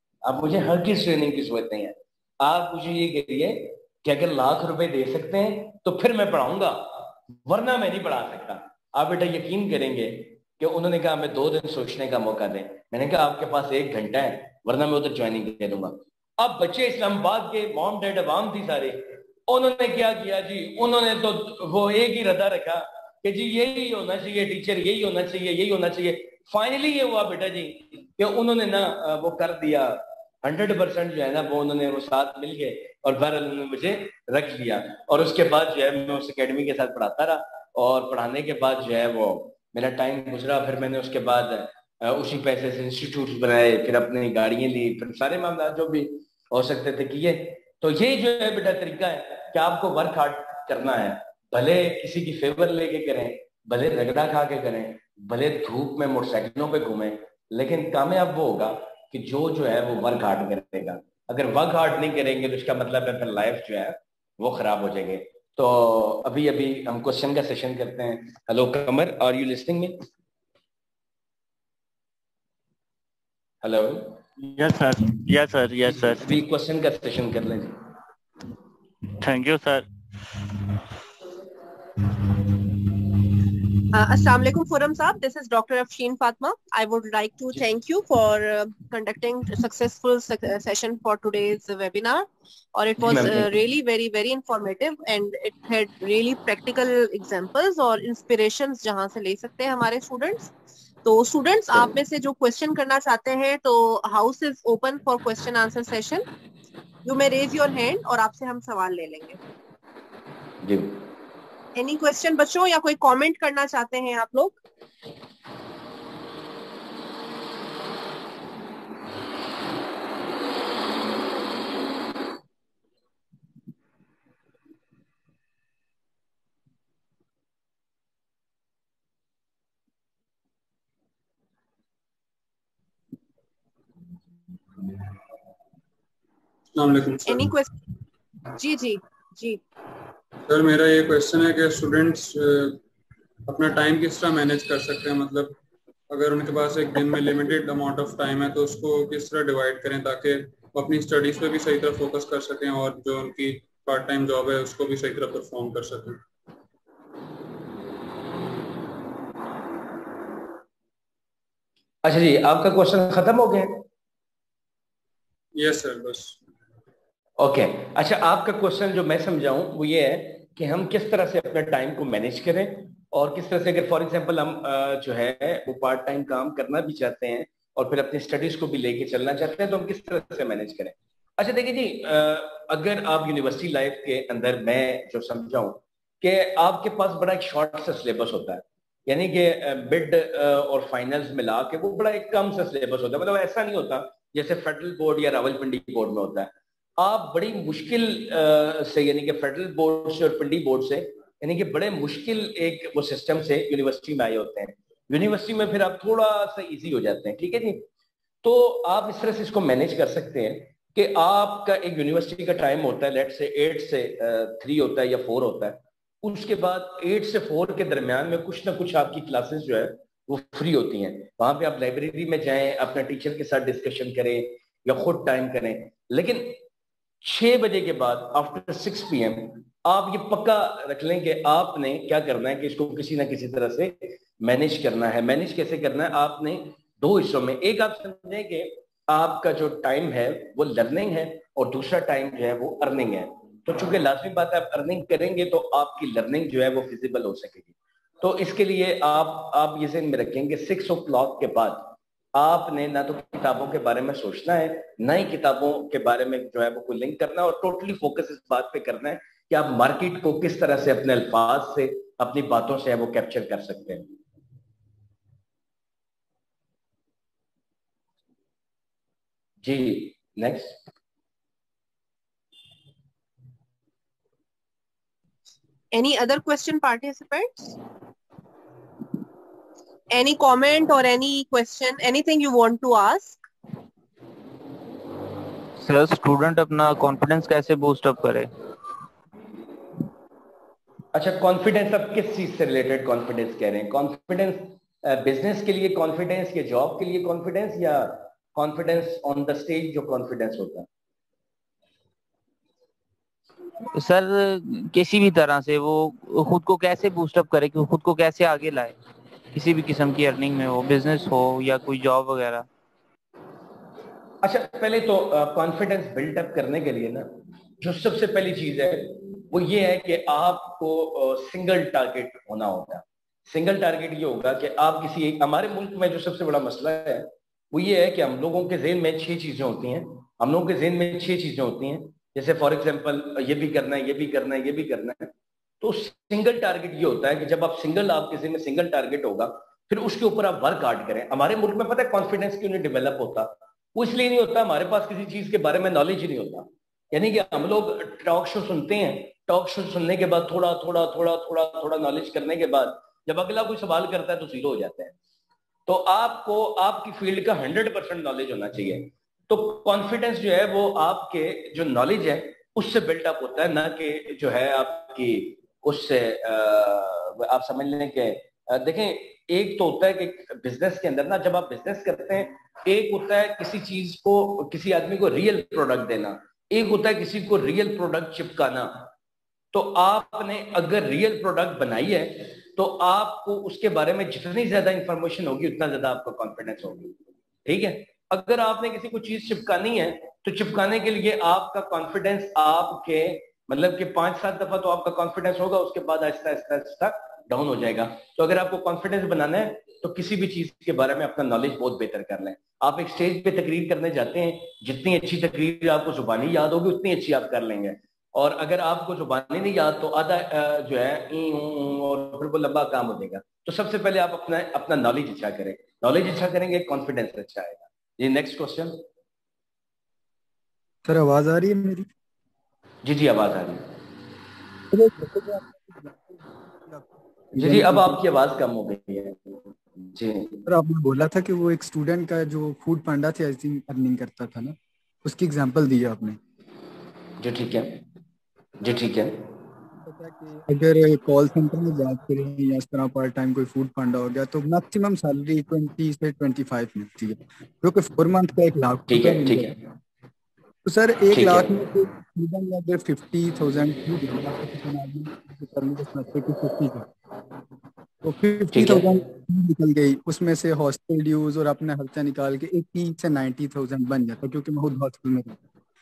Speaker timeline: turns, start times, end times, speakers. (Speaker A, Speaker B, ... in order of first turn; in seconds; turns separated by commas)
Speaker A: 0.2-70.0, Speaker A: 73.6-74.2, Speaker B: 74.4-76.3, Speaker A: 76.1-77.7, Speaker B: 79.2-79.8, Speaker C: 83.9-100.5, Speaker A: 93.0-93.5, Speaker C: 101.0-106.2, Speaker C: 107.0-109.4, Speaker A: 110.6-111.0, Speaker C: 111.7-114.6, Speaker D: 136.7-137.5, Speaker C: 137.3-137.7, Speaker C: 138.6-139.6, Speaker D: 140.5-142.8, Speaker D: 143.5-145.6, Speaker D: 146.1-156.2, Speaker A: 162.0-163.8, Speaker D: 165.5-166.4, Speaker A: 167.4-207.8, Speaker A: 208.4-226.6, Speaker A: 227.2-264.1, Speaker A: 269.6-270.7, Speaker C: 275.9-277.7, Speaker C: 280.1-283.4, Speaker E: 285.8-288.5, Speaker A: 291.1-300.9, Speaker E: 303.9-309.0, Speaker E: 309.5-312.7, Speaker A: 314.4-317.3, Speaker A: 317.8-335.3, Speaker A: 335.8-355.1, Speaker A: 355.9-379.1, Speaker A: 379.7-387.1, Speaker A: 387.6-419.0, Speaker F: 421.0-422.1, Speaker A: 423.0-423.9, Speaker F: 424.9-428.2, Speaker A: 427.5-430.6, Speaker F: 430.6-436.4, Speaker A: 437.4-438.0, Speaker A: 438.8-439.4, Speaker F: 440.0-449.7, Speaker A: 449.1-449.8, Speaker F: 450.8-457.1, Speaker A: 451.3-451.7, Speaker F: 458.2-465.6, Speaker A: 458.7-459.0